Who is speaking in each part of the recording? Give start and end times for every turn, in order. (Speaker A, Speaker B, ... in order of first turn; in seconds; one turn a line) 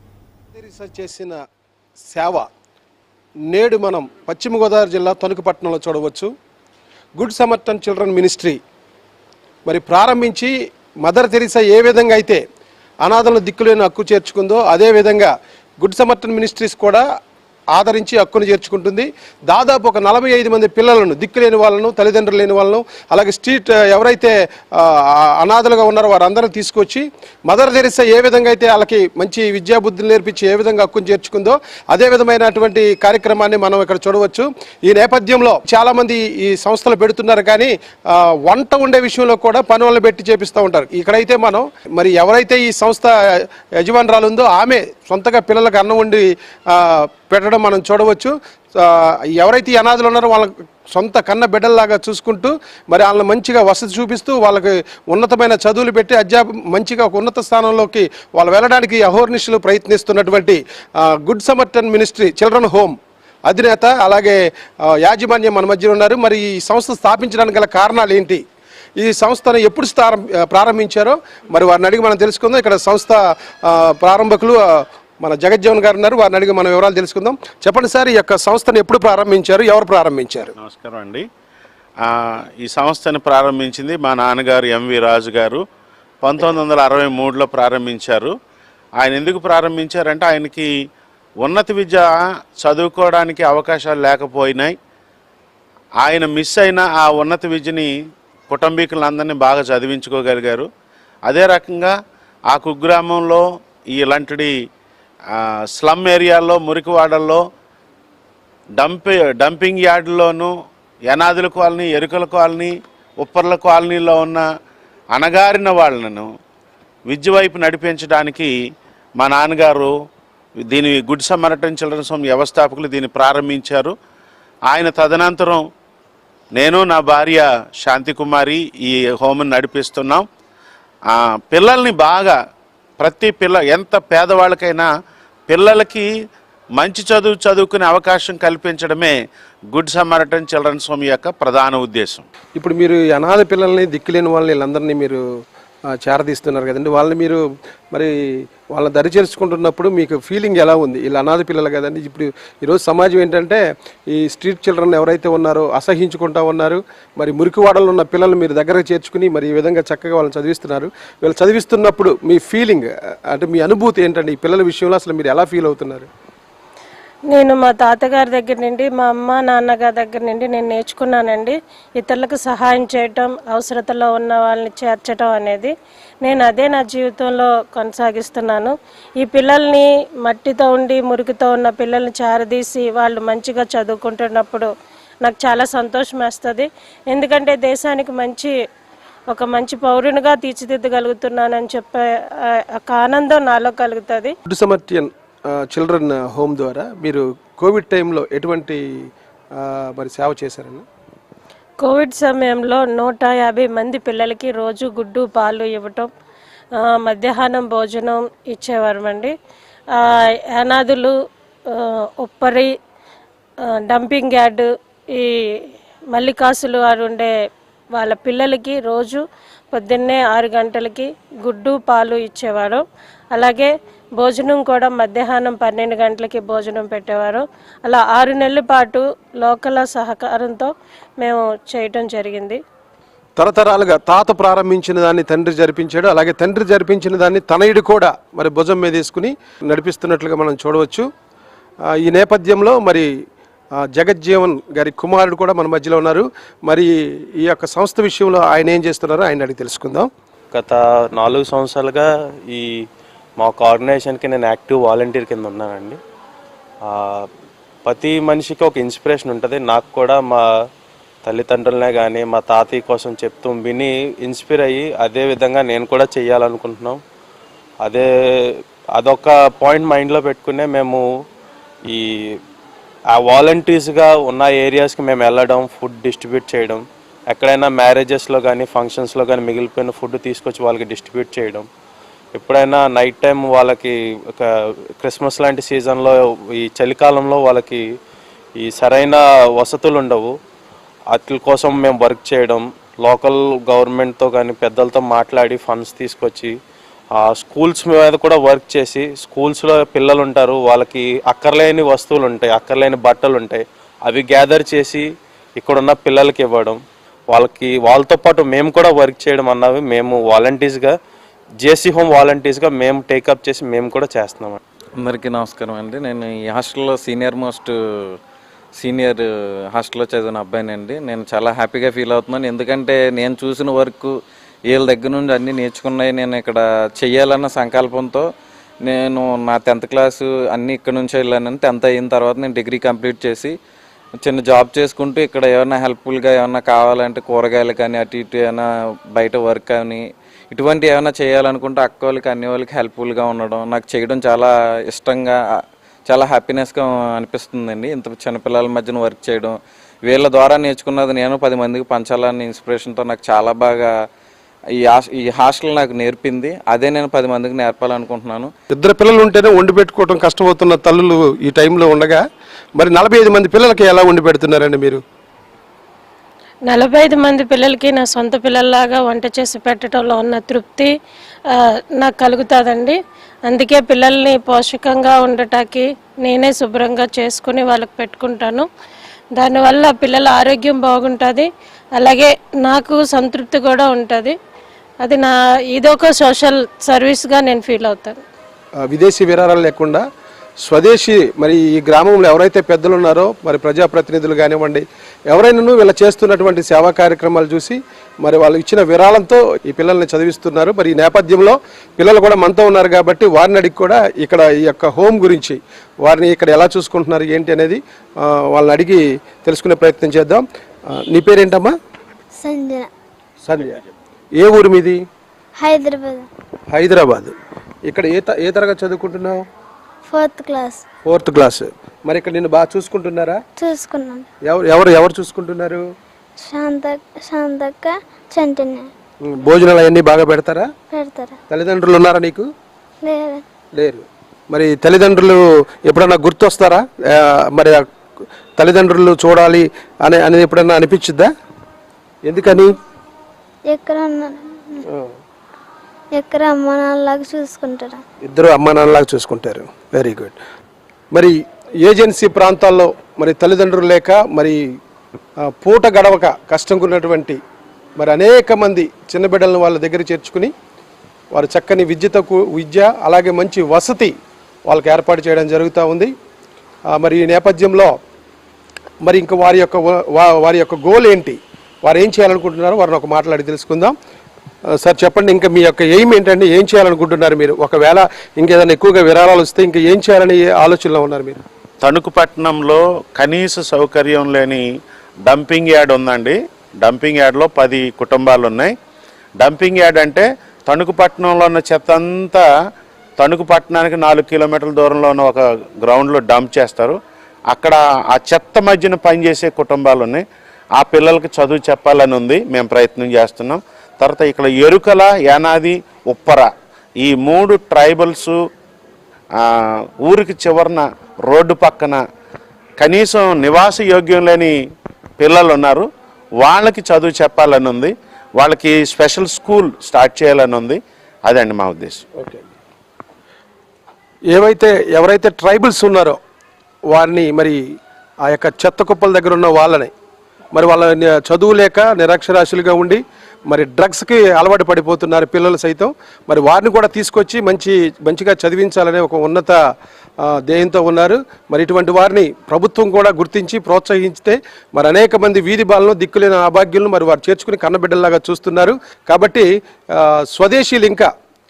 Speaker A: 0.5-1.4
Speaker A: 2.1-2.5
Speaker A: 3.5-6.3
Speaker A: 7.2-8.6
Speaker A: 9.7-10.5
Speaker A: 11.0-12.4
Speaker A: 13.0-17.0
Speaker A: 17.8-68.4
Speaker A: 69.0-80.5
Speaker B: 80.6-81.2
Speaker B: 82.0-85.6
Speaker B: 86.2-88.3
Speaker B: 89.0-90.7
Speaker B: 91.4-94.7
Speaker B: 96.0-97.9
Speaker B: 98.5-100.7
Speaker B: 101.3-101.9
Speaker B: 102.5-104.5
Speaker B: 105.8-107.4
Speaker B: 108.8-110.5
Speaker B: 111.1-114.5
Speaker B: 115.2-116.3
Speaker B: 117.1-118.5
Speaker B: 119.2-119.9
Speaker B: 120.7-123.9
Speaker B: 124.7-125.6
Speaker B: 126.6-130.2
Speaker B: 131.1-132.3
Speaker B: 133.0-134.9
Speaker B: 135.5-136.1
Speaker B: 136.8-139.2
Speaker B: 139.7-142.3
Speaker A: 142.6-145.2
Speaker A: 146.0-148.1
Speaker A: 148.7-166.1
Speaker C: 167.3-175.7
Speaker C: 176.2-184.7
Speaker C: 185.2-188.5
Speaker C: 189.3-194.3
Speaker A: 194.5-198.8
Speaker A: 199.6-200.8
Speaker C: 201.8-206.1
Speaker C: 206.8-209.3
Speaker C: 210.0-211.1
Speaker C: 211.7-212.7
Speaker C: 213.8-217.3
Speaker C: 218.0-232.6
Speaker A: 233.4-241.1
Speaker A: 241.9-243.1
Speaker A: 243.8-250.1
Speaker D: 250.5-252.8
Speaker D: 253.4-256.0
Speaker D: 256.9-257.3
Speaker D: 257.9-260.4
Speaker D: 261.3-267.0
Speaker D: 267.8-271.1
Speaker D: 271.9-272.4
Speaker D: 273.1-281.7
Speaker D: 282.4-287.9
Speaker D: 288.6-290.4
Speaker D: 291.1-296.6
Speaker D: 297.1-311.0
Speaker D: 311.6-314.6
Speaker E: 315.0-318.2
Speaker E: 318.8-328.3
Speaker E: 328.8-333.6
Speaker E: 334.2-353.9
Speaker E: 354.8-358.5
Speaker A: 358.7-362.2
Speaker A: 362.8-365.0
Speaker C: 366.7-370.9
Speaker C: 371.5-378.7
Speaker C: 379.4-384.4
Speaker C: 385.0-388.2
Speaker A: 388.8-390.0
Speaker A: 390.6-411.7
Speaker F: 412.4-412.9
Speaker A: 413.4-413.8
Speaker A: 414.4-415.0
Speaker F: 415.6-416.3
Speaker A: 416.7-417.3
Speaker A: 417.9-419.4
Speaker F: 420.0-420.9
Speaker A: 421.1-423.4
Speaker F: 423.6-424.3
Speaker A: 424.5-425.8
Speaker F: 426.4-428.9
Speaker A: 429.2-430.7
Speaker F: 430.9-431.4
Speaker A: 431.5-432.5
Speaker F: 433.0-433.4
Speaker A: 433.8-437.9
Speaker A: 438.6-441.3
Speaker A: 442.2-442.7
Speaker F: 443.7-444.9
Speaker F: 446.1-448.0
Speaker A: 448.2-450.4
Speaker A: 451.1-454.6
Speaker A: 455.5-457.4
Speaker A: 458.0-460.5
Speaker A: 461.3-464.1
Speaker A: 464.7-466.1
Speaker A: 466.9-467.9
Speaker A: 469.0-473.9
Speaker A: 474.8-481.4
Speaker B: 481.8-484.6
Speaker B: 485.3-488.7
Speaker B: 489.4-492.4
Speaker B: 493.2-497.0
Speaker B: 497.5-500.2
Speaker B: 500.8-506.5
Speaker B: 507.0-508.4
Speaker B: 510.0-512.0
Speaker B: 512.8-514.5
Speaker B: 515.2-515.9
Speaker B: 516.4-522.0
Speaker A: 522.2-522.4
Speaker A: 524.3-526.2
Speaker A: 526.9-527.6
Speaker A: 528.2-529.9
Speaker A: 530.5-539.6
Speaker A: 540.2-551.1